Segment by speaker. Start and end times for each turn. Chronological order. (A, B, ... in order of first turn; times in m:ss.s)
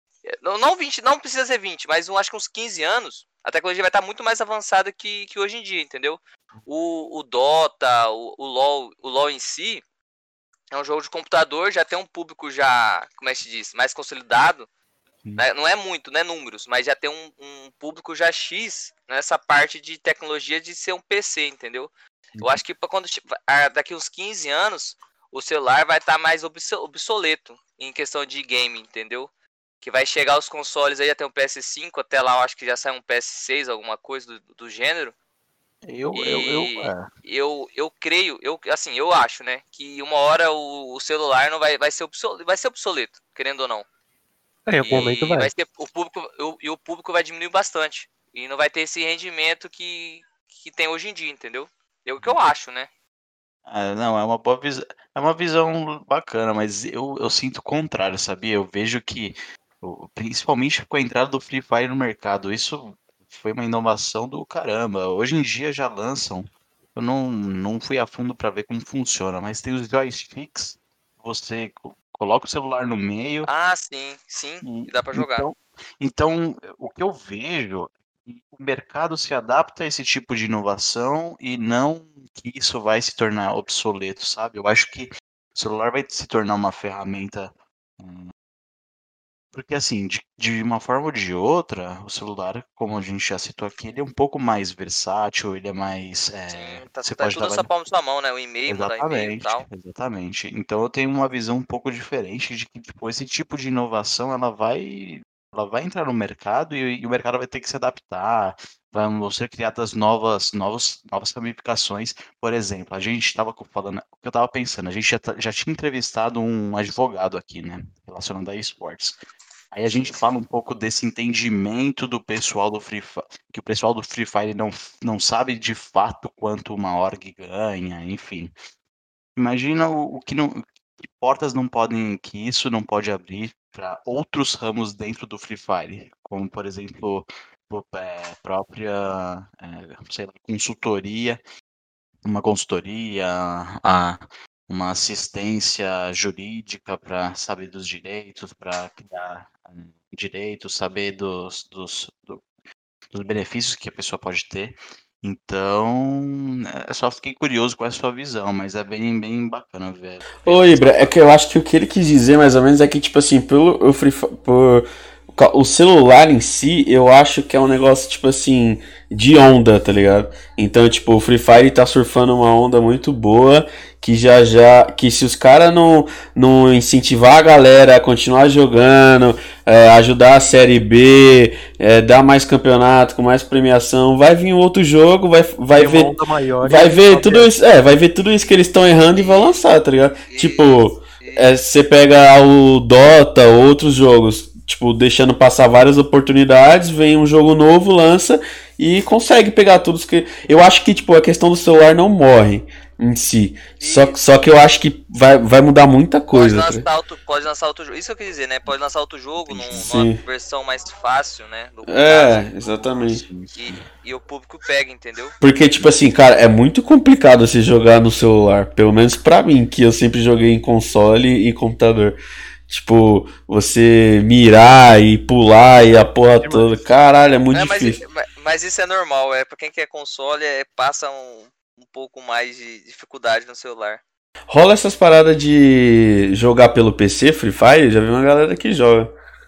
0:00.3-0:09.8 A
0:10.7-0:14.7 A
0:15.4-0:21.9 A
0:22.4-0:29.3 A
0:29.8-0:35.1 A
0:35.8-0:37.1 B
0:36.1-0:43.8 A
0:44.7-0:45.5 C
0:44.8-0:52.9 A
0:53.6-1:13.5 B
1:13.4-1:15.5 A
1:14.6-1:28.3 B
1:29.5-1:37.7 B
1:36.5-1:39.6 A
1:38.7-1:59.2 B
1:59.7-2:08.5 B
2:09.4-2:21.4 B
2:22.2-2:32.4 B
2:33.1-2:41.1 B
2:40.4-3:26.8 D
3:05.7-3:07.5 C
3:09.1-3:09.6 A
3:10.3-3:11.5 A
3:23.8-3:24.2 A
3:26.3-3:32.5 A
3:29.5-3:29.8 B
3:29.8-3:30.2 D
3:31.9-3:33.2 D
3:32.7-3:33.8 B
3:33.5-3:35.3 A
3:35.4-3:48.0 D
3:46.0-3:46.8 C
3:47.5-3:54.0 A
3:54.5-3:59.1 D